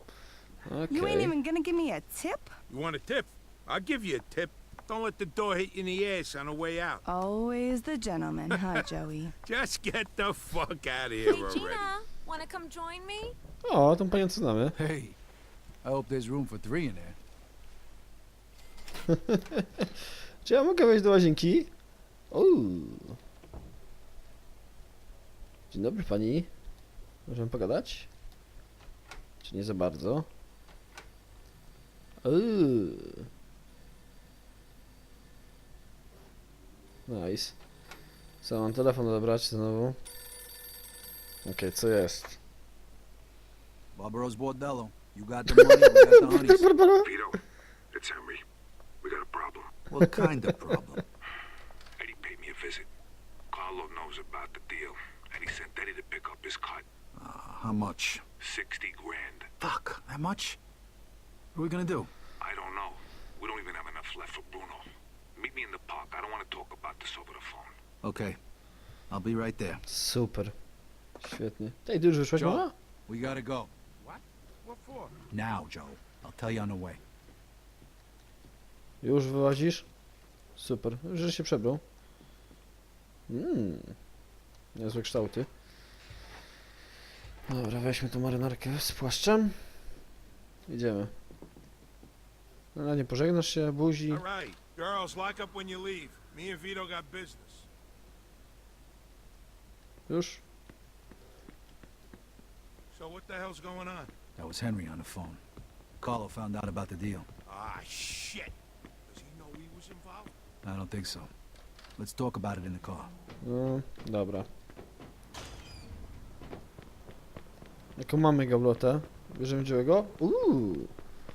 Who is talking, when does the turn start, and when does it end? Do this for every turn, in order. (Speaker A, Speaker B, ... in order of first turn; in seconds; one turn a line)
Speaker A: 0.7-1.3
Speaker B: 0.9-2.5
Speaker C: 2.7-7.0
Speaker B: 7.0-9.3
Speaker C: 8.5-8.9
Speaker C: 9.4-11.8
Speaker D: 11.2-13.3
Speaker A: 13.6-14.8
Speaker E: 14.8-15.2
Speaker E: 15.8-17.2
Speaker A: 19.1-19.9
Speaker A: 20.4-21.7
Speaker A: 22.3-23.2
Speaker A: 25.7-26.5
Speaker A: 27.3-28.1
Speaker A: 29.4-30.3
Speaker A: 32.2-33.3
Speaker A: 37.1-37.5
Speaker A: 38.4-40.0
Speaker A: 41.4-42.4
Speaker E: 43.9-46.7
Speaker A: 45.5-47.1
Speaker F: 47.0-48.4
Speaker F: 49.0-49.7
Speaker E: 49.9-51.0
Speaker F: 52.0-52.9
Speaker F: 53.5-56.8
Speaker E: 57.1-58.2
Speaker F: 58.4-59.5
Speaker E: 59.6-60.6
Speaker E: 61.5-62.1
Speaker F: 62.4-64.8
Speaker F: 65.4-67.7
Speaker E: 68.0-68.4
Speaker E: 69.1-69.8
Speaker A: 69.9-70.5
Speaker A: 71.2-72.7
Speaker E: 72.3-73.7
Speaker C: 74.0-75.1
Speaker E: 75.3-77.0
Speaker A: 79.0-79.8
Speaker A: 80.6-81.8
Speaker A: 83.3-83.9
Speaker A: 84.7-85.5
Speaker A: 87.5-89.7
Speaker A: 90.7-91.1
Speaker A: 92.7-94.2
Speaker C: 94.1-97.7
Speaker A: 100.1-100.4
Speaker C: 102.9-104.1
Speaker E: 104.4-105.4
Speaker E: 106.0-107.3
Speaker C: 107.5-108.5
Speaker C: 109.1-110.3
Speaker E: 110.6-111.3
Speaker E: 112.0-113.1
Speaker A: 113.4-114.5
Speaker A: 118.0-120.9